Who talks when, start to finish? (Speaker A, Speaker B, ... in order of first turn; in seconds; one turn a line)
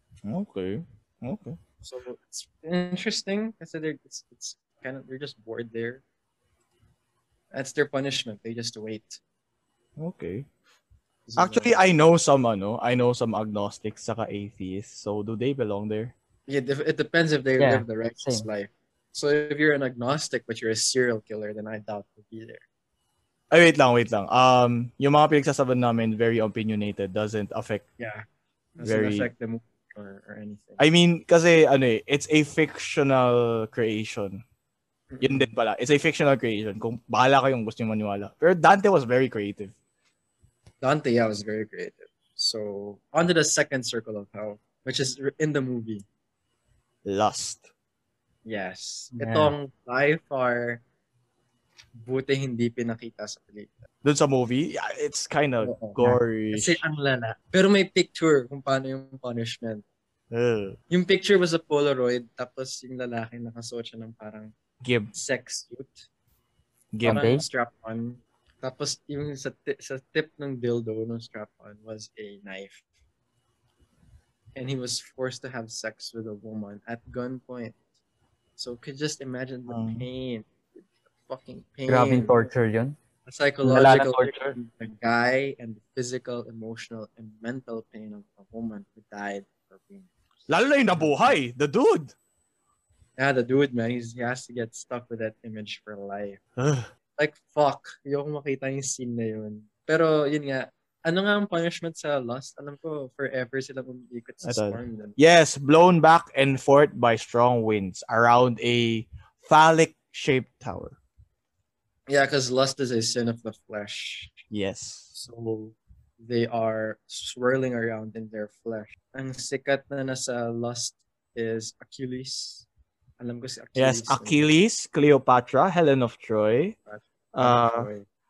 Speaker A: 0.2-1.6
Speaker B: 1.8-6.0
Speaker B: 7.5-9.2
Speaker A: 10.0-10.5
Speaker B: 11.3-11.8
Speaker A: 11.4-16.1
Speaker B: 16.5-22.6
Speaker C: 17.6-18.5
Speaker A: 23.5-27.9
Speaker B: 28.0-28.2
Speaker B: 28.8-30.8
Speaker A: 28.8-29.3
Speaker A: 30.8-34.4
Speaker B: 35.1-35.5
Speaker A: 35.2-39.7
Speaker B: 40.8-46.0
Speaker A: 47.0-47.7
Speaker B: 48.5-50.8
Speaker C: 49.1-49.5
Speaker B: 52.0-53.8
Speaker A: 54.0-56.8
Speaker B: 55.6-59.9
Speaker A: 60.3-60.8
Speaker B: 60.9-64.5
Speaker A: 64.8-65.1
Speaker B: 65.1-66.0
Speaker A: 66.9-67.3
Speaker B: 67.0-72.8
Speaker C: 67.1-67.4
Speaker B: 74.6-77.8
Speaker B: 78.6-80.5
Speaker A: 79.7-80.1
Speaker B: 81.3-82.5
Speaker C: 81.9-83.0
Speaker B: 83.3-90.1
Speaker C: 83.7-84.5
Speaker A: 90.5-92.1
Speaker B: 90.9-91.3
Speaker B: 93.2-96.4
Speaker A: 96.6-96.9
Speaker B: 97.2-105.2
Speaker A: 104.4-111.0
Speaker B: 112.1-114.4
Speaker A: 114.5-115.1
Speaker B: 115.1-122.7
Speaker B: 123.2-124.4
Speaker A: 123.8-126.8
Speaker B: 126.9-128.1
Speaker A: 127.3-127.9